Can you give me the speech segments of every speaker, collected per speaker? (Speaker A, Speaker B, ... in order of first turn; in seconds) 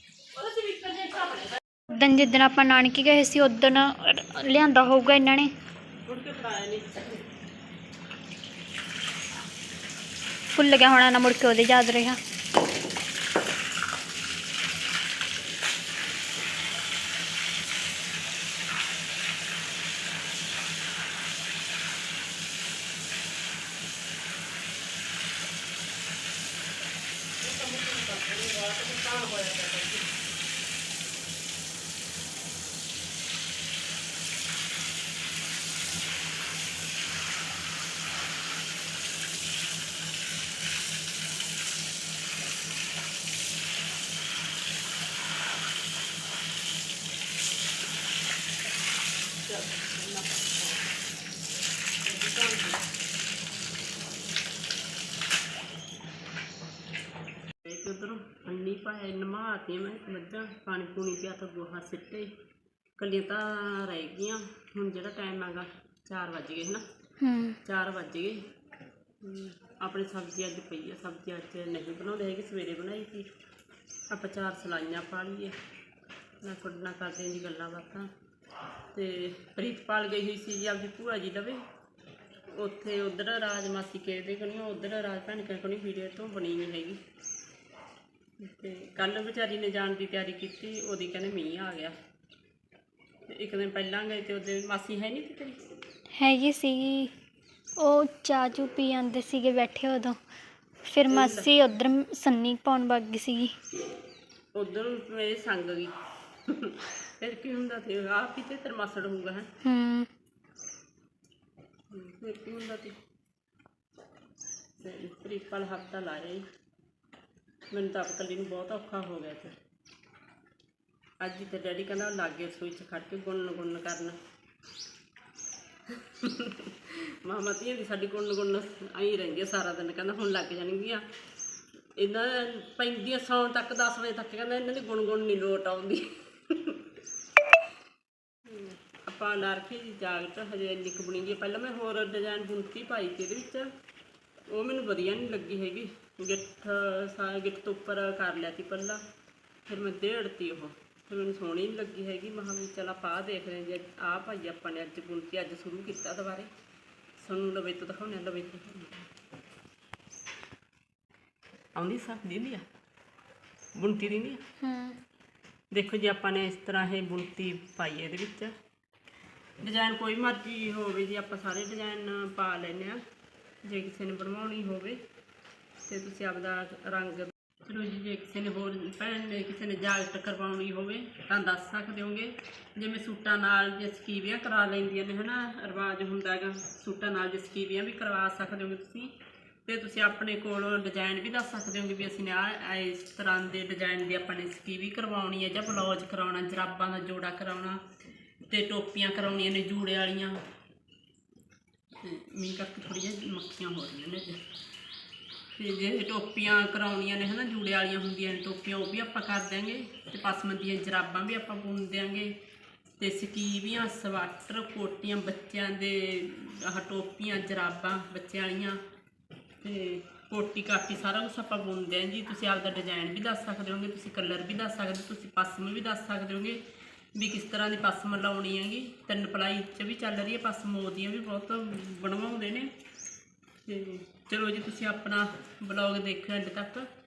Speaker A: 0.3-1.8, 6.0-7.2, 27.4-30.1, 49.5-50.8, 52.0-52.8, 57.6-62.3, 63.0-66.8, 67.6-68.4, 69.2-73.3, 74.1-75.5, 76.4-78.1, 78.9-81.6, 82.5-87.0, 88.4-91.9, 93.3-95.6, 101.1-101.5, 104.5-105.9, 106.5-109.5, 111.9-113.0, 114.8-116.5, 117.7-119.5, 121.2-124.2, 125.9-131.0, 132.0-136.8, 138.5-143.7, 144.5-149.0, 149.7-156.5, 157.2-159.1, 161.8-162.6, 163.7-164.4, 165.7-168.5, 169.6-173.0, 173.6-175.0, 175.8-189.1, 189.7-197.8, 198.5-200.4, 202.0-204.4, 205.6-212.3, 213.0-218.8, 219.6-226.6, 227.1-232.7, 233.7-236.9
Speaker B: 1.9-5.5, 10.5-12.2, 67.2-67.6, 96.2-97.1, 97.8-100.2, 100.8-103.5, 109.6-110.1, 164.6-165.0